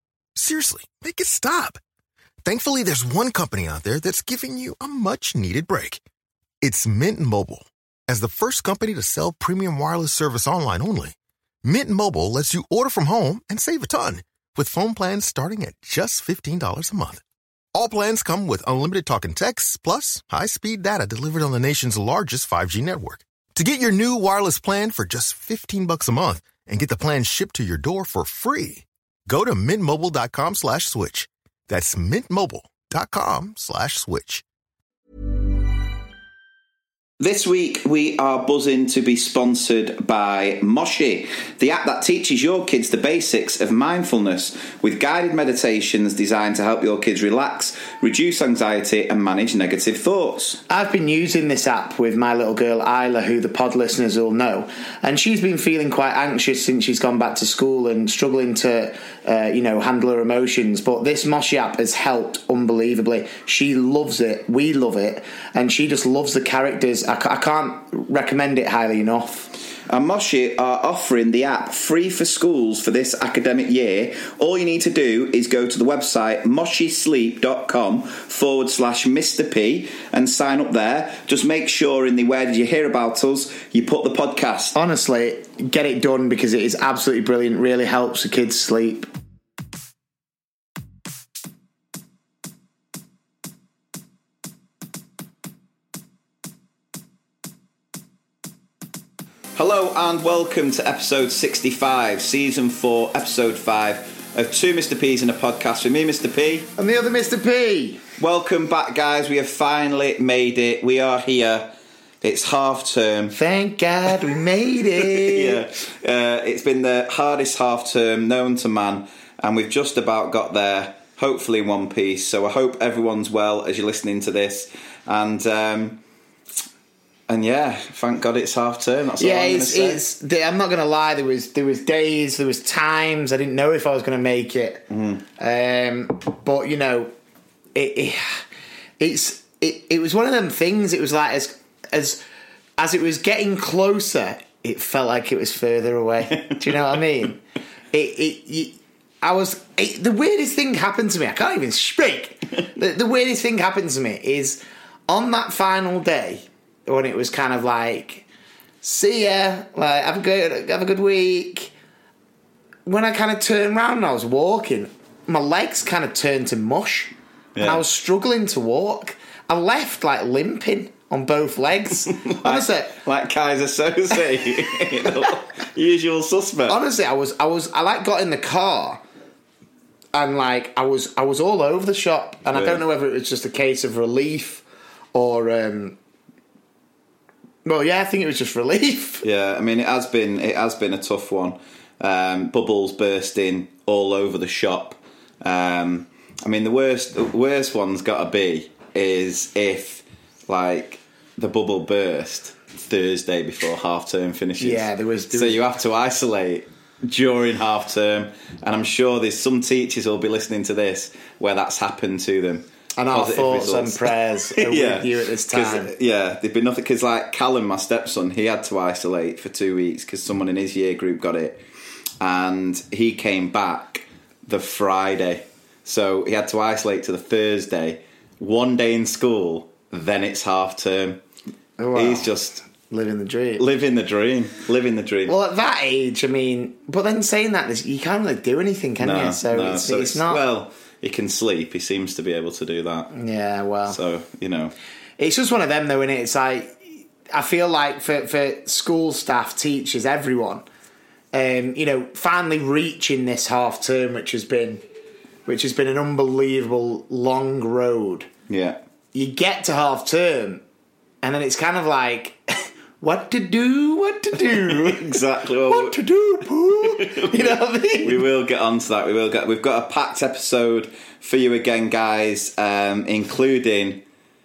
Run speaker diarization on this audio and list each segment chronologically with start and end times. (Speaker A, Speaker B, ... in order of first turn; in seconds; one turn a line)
Speaker A: 0.3-1.8
Speaker A: 2.4-6.0
Speaker A: 6.6-17.2
Speaker A: 17.7-34.4
Speaker B: 37.2-50.6
Speaker C: 50.7-69.5
Speaker B: 69.9-84.8
Speaker C: 84.7-89.1
Speaker B: 99.5-106.7
Speaker C: 106.8-108.0
Speaker B: 108.2-113.3
Speaker C: 113.3-115.6
Speaker B: 115.0-126.0
Speaker B: 127.3-130.0
Speaker C: 129.2-134.8
Speaker B: 134.9-135.2
Speaker C: 135.4-137.1
Speaker C: 137.7-138.4
Speaker C: 139.0-142.2
Speaker C: 142.8-147.4
Speaker B: 146.3-146.9
Speaker C: 147.9-158.2
Speaker C: 158.8-161.7
Speaker C: 162.8-172.9
Speaker B: 167.5-167.8
Speaker B: 172.1-176.8
Speaker C: 176.7-179.0
Speaker C: 180.1-185.9
Speaker B: 182.5-182.8
Speaker C: 187.6-189.2
Speaker B: 189.2-221.6
Speaker C: 204.6-205.6
Speaker C: 212.9-215.9
Speaker B: 222.2-231.2
Speaker C: 231.8-233.6
Speaker B: 231.9-232.6
Speaker B: 233.6-235.3
Speaker C: 235.3-240.4
Speaker B: 239.0-243.1
Speaker C: 243.1-244.0
Speaker B: 243.9-244.7
Speaker C: 245.2-246.8
Speaker C: 247.3-250.6
Speaker C: 251.3-254.8
Speaker C: 255.4-258.3
Speaker B: 258.5-258.8
Speaker C: 259.1-260.6
Speaker C: 261.2-268.2
Speaker B: 264.4-266.0
Speaker B: 266.8-274.0